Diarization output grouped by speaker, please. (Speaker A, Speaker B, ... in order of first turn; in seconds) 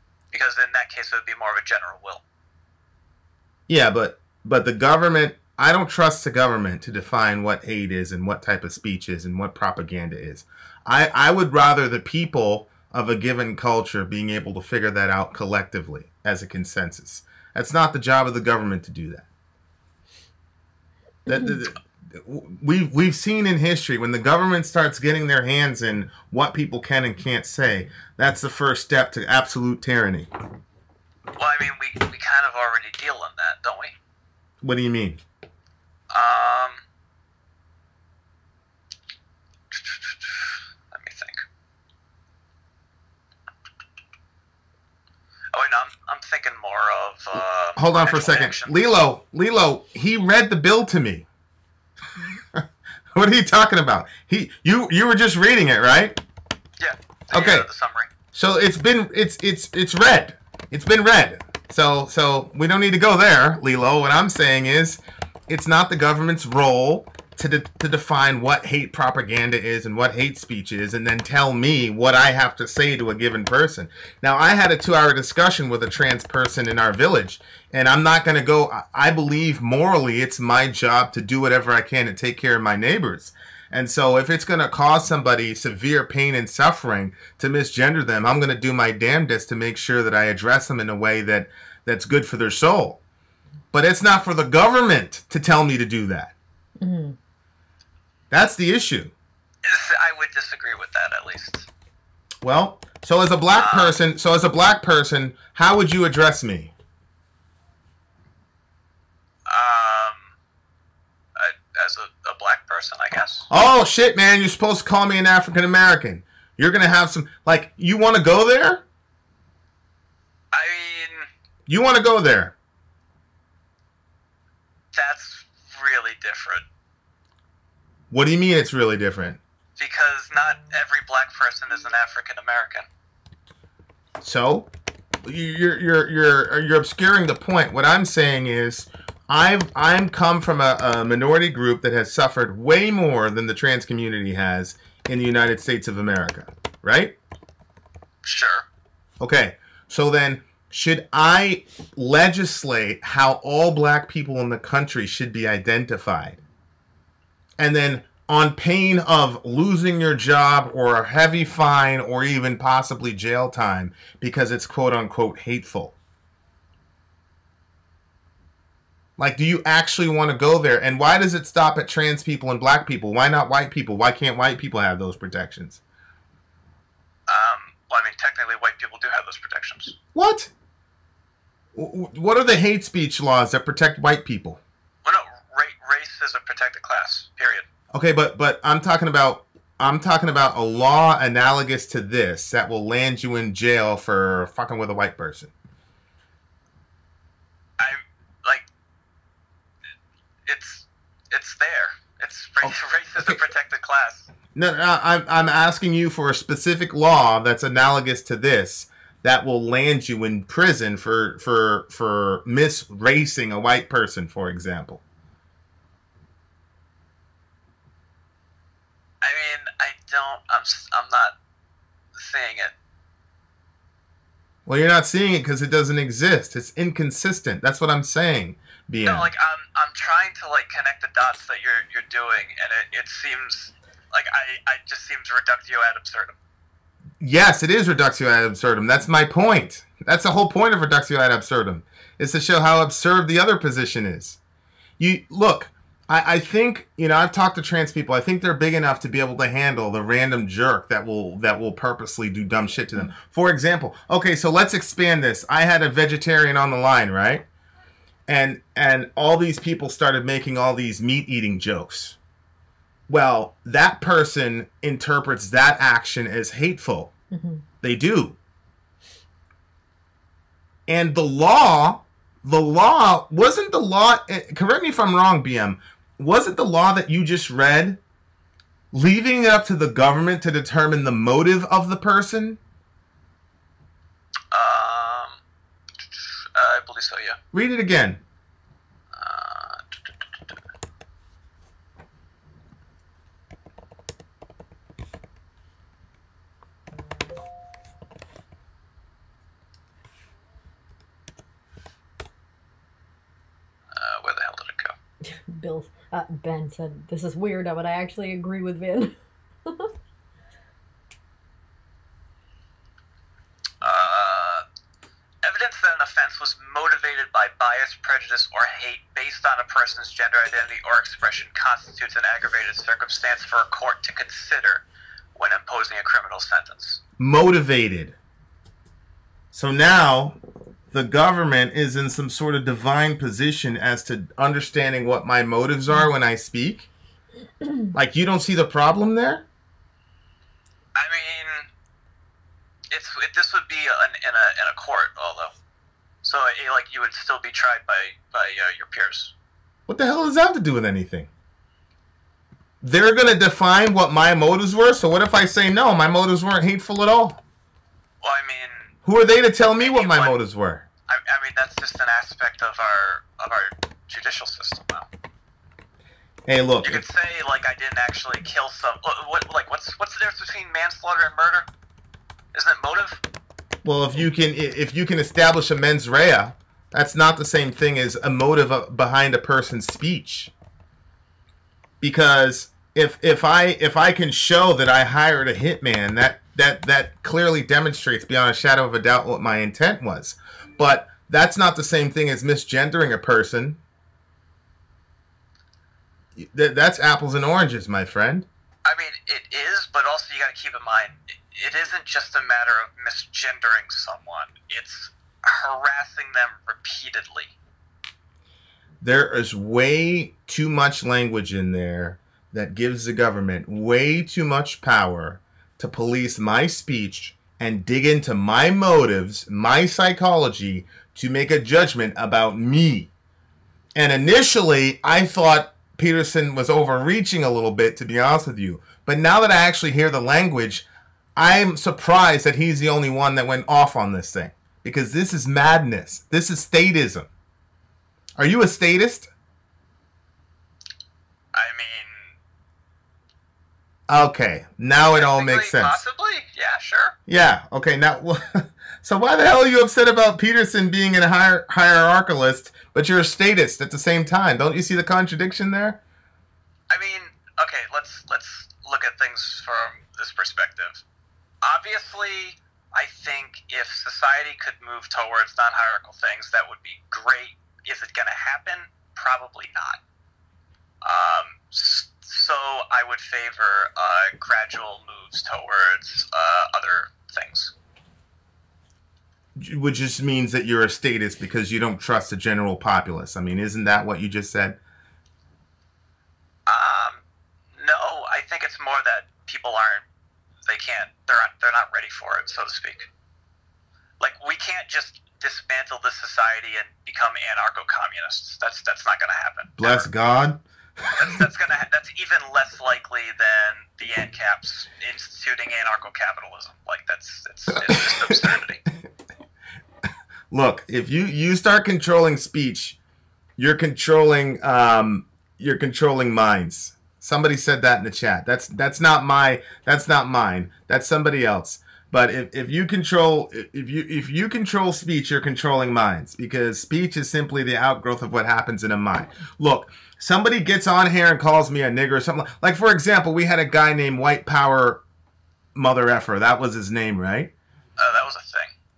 Speaker A: 0.3-2.2, 31.3-34.0, 36.1-36.8, 39.7-41.4, 45.5-48.9, 56.8-58.1, 99.6-101.7, 103.5-104.0, 109.5-110.3, 111.4-113.5, 120.5-121.3, 124.9-126.7, 129.8-132.9, 148.2-148.7, 177.3-179.9, 185.0-187.7, 197.8-198.7, 200.5-204.3, 219.2-221.3, 222.2-222.7, 229.0-236.4, 284.5-285.4, 286.1-287.4, 289.1-289.9, 303.9-304.9, 313.8-314.6, 315.4-324.8, 325.4-327.0, 341.0-341.7, 342.9-345.5, 346.2-349.3, 358.2-358.9, 359.8-360.4, 361.1-365.1, 366.8-371.7, 372.5-373.2, 398.9-407.5, 441.5-442.3, 445.0-447.1, 456.9-461.0, 461.6-470.0, 471.0-477.7, 486.7-487.2, 487.8-490.0, 490.7-493.1, 494.2-500.1, 501.2-508.8, 538.0-538.7
Speaker B: 3.7-19.3, 21.3-30.3, 34.6-35.2, 47.8-51.2, 52.5-56.2, 57.3-57.7, 58.3-93.0, 93.7-96.3, 98.3-99.1, 102.4-106.7, 113.5-118.8, 121.7-122.5, 128.1-129.4, 134.2-134.7, 135.2-147.2, 149.2-156.4, 157.6-165.9, 169.2-175.8, 180.1-180.5, 181.8-184.6, 187.9-195.5, 202.6-203.4, 204.6-215.0, 224.7-229.3, 237.2-244.4, 245.0-257.4, 258.3-262.2, 263.1-267.1, 267.8-268.4, 270.9-278.0, 278.9-282.6, 287.5-288.2, 327.2-328.1, 329.5-330.4, 330.9-336.9, 337.9-339.5, 349.9-351.3, 352.8-357.4, 359.1-360.9, 366.5-367.0, 373.8-380.5, 382.0-393.8, 396.4-398.5, 409.0-423.1, 423.9-430.9, 431.4-437.3, 438.4-439.3, 444.1-446.0, 447.3-456.0, 479.6-484.8, 499.8-501.4, 507.8-508.6, 510.5-513.0, 513.6-535.0, 535.8-537.5
Speaker C: 96.8-97.2, 267.3-267.6, 305.5-309.9